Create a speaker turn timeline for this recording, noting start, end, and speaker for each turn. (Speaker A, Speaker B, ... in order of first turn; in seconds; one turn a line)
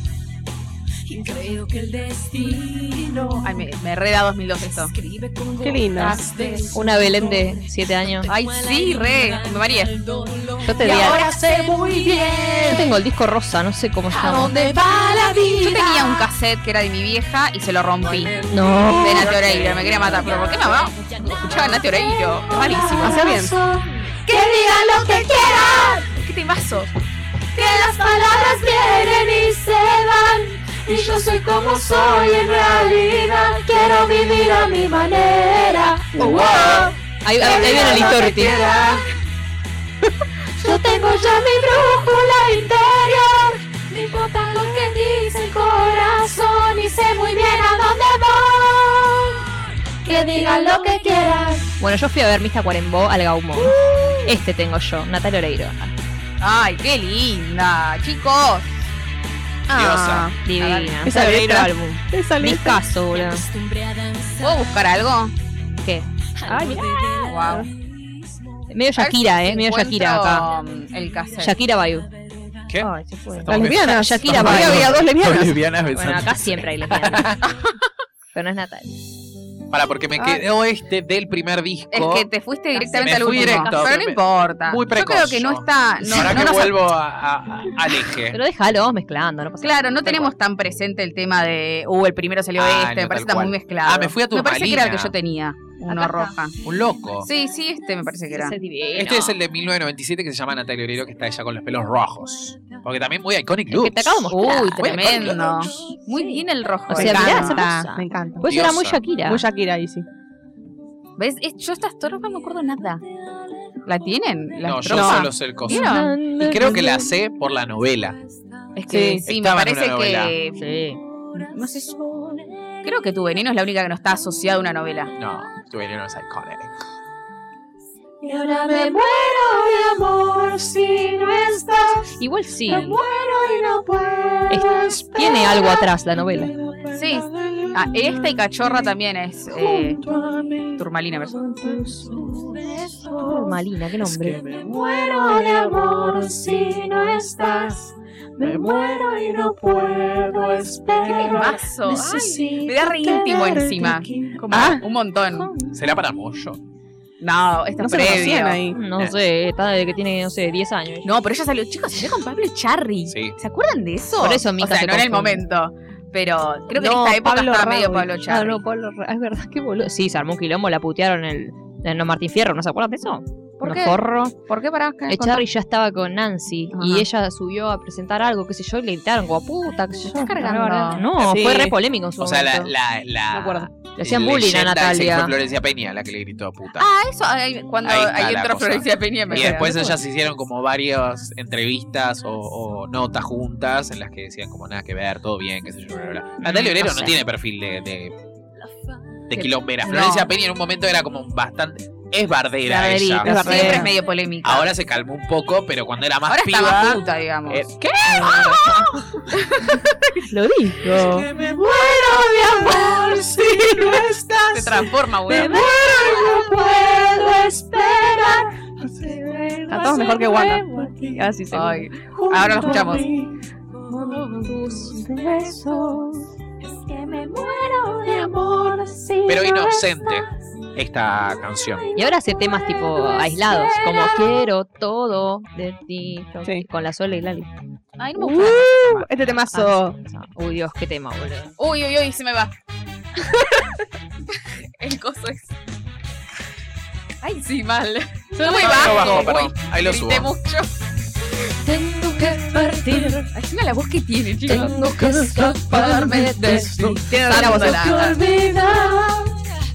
Speaker A: 1.1-3.7
Speaker B: 3.4-4.9
Speaker A: 4.6-13.0
Speaker C: 5.6-6.2
Speaker D: 6.7-8.3
Speaker B: 8.3-9.9
Speaker D: 10.7-11.2
Speaker B: 10.8-11.3
Speaker D: 12.7-14.5
Speaker A: 14.1-16.3
Speaker B: 15.6-18.3
Speaker D: 18.5-20.0
Speaker A: 18.6-26.1
Speaker B: 19.0-23.3
Speaker C: 23.0-23.5
Speaker B: 26.1-26.9
Speaker A: 27.5-39.1
Speaker C: 36.3-36.8
Speaker D: 36.3-38.7
Speaker B: 37.5-38.1
Speaker A: 40.6-49.4
Speaker A: 50.0-51.7
Speaker D: 51.8-55.9
Speaker C: 53.6-54.3
Speaker B: 56.4-58.8
Speaker C: 59.7-60.4
Speaker E: 59.7-60.3
Speaker D: 60.4-63.4
Speaker B: 60.6-61.0
Speaker C: 61.0-62.8
Speaker A: 63.1-64.9
Speaker B: 64.4-65.3
Speaker D: 65.8-67.7
Speaker A: 66.4-68.6
Speaker B: 67.2-67.7
Speaker D: 68.7-70.5
Speaker B: 69.0-71.5
Speaker A: 70.5-72.6
Speaker D: 71.4-72.1
Speaker E: 72.7-77.4
Speaker D: 72.8-75.0
Speaker C: 73.5-75.6
Speaker D: 75.9-77.3
Speaker D: 78.3-79.0
Speaker E: 79.7-82.3
Speaker B: 81.9-86.8
Speaker D: 82.7-84.0
Speaker E: 83.0-88.4
Speaker D: 88.3-90.3
Speaker B: 89.6-96.5
Speaker E: 92.5-95.2
Speaker D: 95.9-96.3
Speaker E: 96.6-97.3
Speaker B: 97.2-98.6
Speaker D: 98.3-99.4
Speaker E: 98.9-105.7
Speaker D: 103.7-105.5
Speaker B: 104.3-107.7
Speaker D: 106.1-109.4
Speaker C: 106.9-108.5
Speaker E: 108.4-109.0
Speaker C: 109.2-110.0
Speaker B: 111.2-113.0
Speaker B: 113.8-116.2
Speaker E: 114.6-118.2
Speaker C: 114.9-115.3
Speaker D: 115.7-117.0
Speaker B: 118.8-120.8
Speaker C: 118.9-119.2
Speaker E: 119.2-120.3
Speaker D: 120.6-121.0
Speaker A: 120.9-123.2
Speaker B: 121.5-122.0
Speaker B: 122.8-125.1
Speaker E: 125.2-126.8
Speaker A: 128.2-138.9
Speaker D: 132.2-133.0
Speaker D: 134.5-136.5
Speaker B: 136.9-140.0
Speaker A: 139.5-154.4
Speaker B: 140.8-141.5
Speaker D: 143.2-144.5
Speaker E: 144.4-146.9
Speaker E: 148.4-149.1
Speaker E: 150.3-151.5
Speaker B: 151.1-155.5
Speaker C: 154.5-154.8
Speaker D: 155.2-155.7
Speaker E: 155.7-156.6
Speaker B: 157.2-158.6
Speaker C: 157.8-158.8
Speaker D: 158.7-161.1
Speaker B: 161.0-168.6
Speaker E: 163.1-163.4
Speaker D: 164.2-165.4
Speaker C: 166.7-168.1
Speaker D: 168.3-174.3
Speaker B: 173.6-175.4
Speaker D: 175.1-182.7
Speaker B: 176.7-177.1
Speaker B: 180.1-181.1
Speaker C: 181.2-181.8
Speaker E: 182.2-186.9
Speaker C: 183.3-183.7
Speaker D: 183.9-185.3
Speaker B: 186.8-189.9
Speaker E: 187.8-198.1
Speaker D: 189.3-189.9
Speaker D: 196.4-197.2
Speaker E: 199.3-203.6
Speaker B: 199.3-200.3
Speaker B: 202.8-204.7
Speaker C: 203.2-203.9
Speaker D: 203.2-203.9
Speaker E: 204.4-208.4
Speaker B: 206.3-208.5
Speaker D: 208.1-209.0
Speaker B: 209.2-210.2
Speaker D: 210.3-211.2
Speaker C: 210.9-211.2
Speaker A: 211.0-230.2
Speaker B: 214.5-215.7
Speaker C: 215.6-216.7
Speaker D: 216.0-216.5
Speaker C: 219.7-221.9
Speaker B: 221.5-223.1
Speaker D: 224.5-224.9
Speaker E: 229.2-231.9
Speaker A: 231.6-234.4
Speaker D: 231.9-237.5
Speaker B: 238.0-239.1
Speaker C: 238.1-240.0
Speaker D: 239.5-241.6
Speaker B: 241.6-242.5
Speaker B: 244.3-245.5
Speaker B: 247.2-250.7
Speaker A: 248.3-249.3
Speaker E: 248.4-250.3
Speaker A: 251.4-253.3
Speaker B: 253.3-254.8
Speaker A: 254.4-259.6
Speaker B: 255.7-258.2
Speaker D: 255.8-256.8
Speaker E: 256.7-257.0
Speaker C: 256.9-258.1
Speaker D: 257.3-257.7